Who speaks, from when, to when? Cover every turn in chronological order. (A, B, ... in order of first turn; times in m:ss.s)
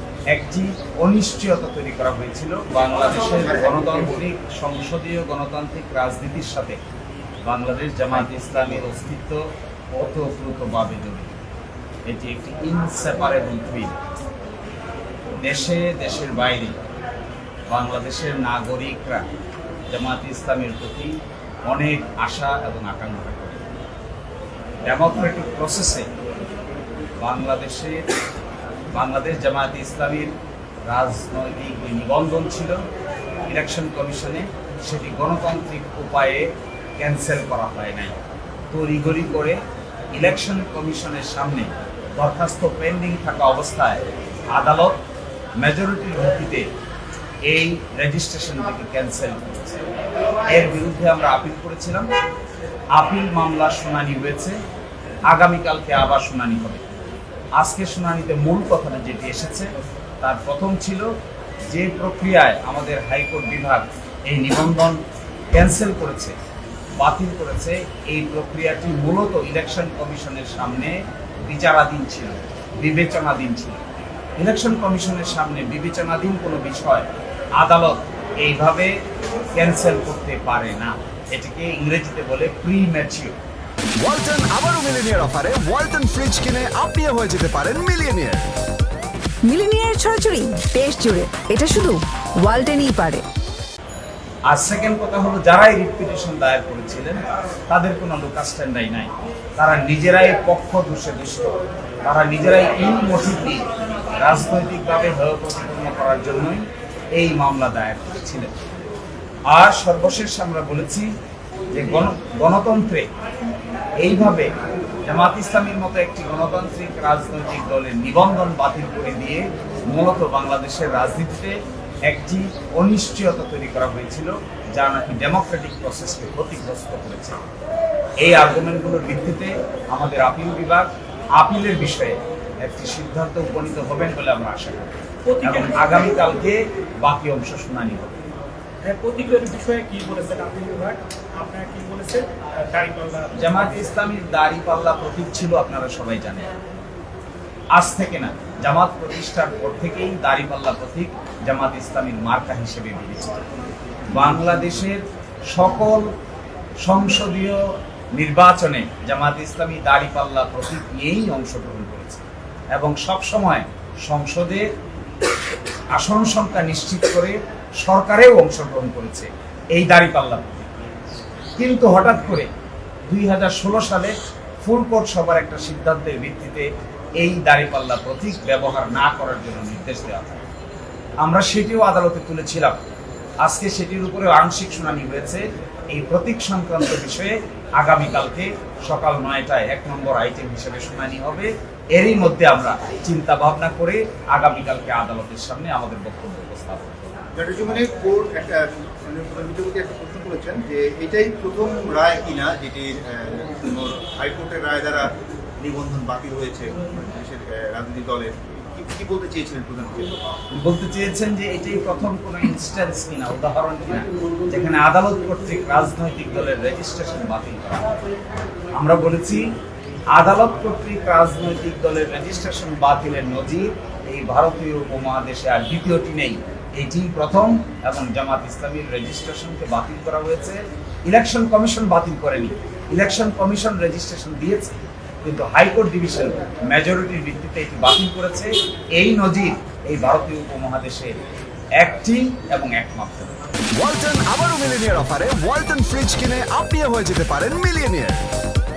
0:00.3-0:06.8 A
0:03.3-0:04.1 B
0:07.5-0:09.4 A
0:10.0-0:11.4 A
0:12.1-0:14.0 A
0:15.4-0:16.8 A
0:17.7-0:19.3 A
0:19.9-0:21.2 A
0:21.7-0:23.7 A
0:24.9-0:26.1 A
0:27.2-0:28.0 A
0:28.9-0:30.3 A
0:30.9-0:32.8 A
0:33.5-0:38.2 A
0:38.7-0:39.6 A
0:40.1-0:44.0 A
0:44.5-0:45.0 A
0:45.6-0:46.7 A
0:47.5-0:49.8 A
0:50.5-0:52.1 A
0:53.0-0:54.6 A
0:55.3-0:56.8 A
0:57.6-0:59.7 A
1:00.2-1:01.1 A
1:01.7-1:05.0 A
1:05.5-1:06.4 A
1:07.0-1:13.8 A
1:14.4-1:18.9 A
1:19.6-1:23.4 A
1:24.0-1:28.5 C
1:29.5-1:33.2 D
1:34.5-1:41.5 A
1:42.0-1:43.7 A
1:44.2-1:48.5 A
1:49.5-1:51.1 A
1:51.7-1:53.1 A
1:54.0-1:54.5 A
1:55.0-2:01.6 A
2:02.1-2:07.4 A
2:08.2-2:18.2 A
2:15.3-2:16.2 E
2:18.8-2:23.7 E
2:23.4-2:26.5 A
2:27.7-2:33.4 A
2:34.1-2:36.1 A
2:36.8-2:37.6 A
2:38.2-2:44.7 A
2:45.9-2:50.7 A
2:51.6-2:52.5 A
2:53.1-2:56.7 A
2:57.2-3:00.4 A
3:01.2-3:02.8 A
3:03.4-3:17.2 A
3:17.4-3:25.1 B
3:25.6-3:30.1 B
3:30.6-3:37.9 A
3:38.8-3:39.4 A
3:40.2-4:01.1 A
4:01.8-4:03.4 A
4:03.8-4:08.2 C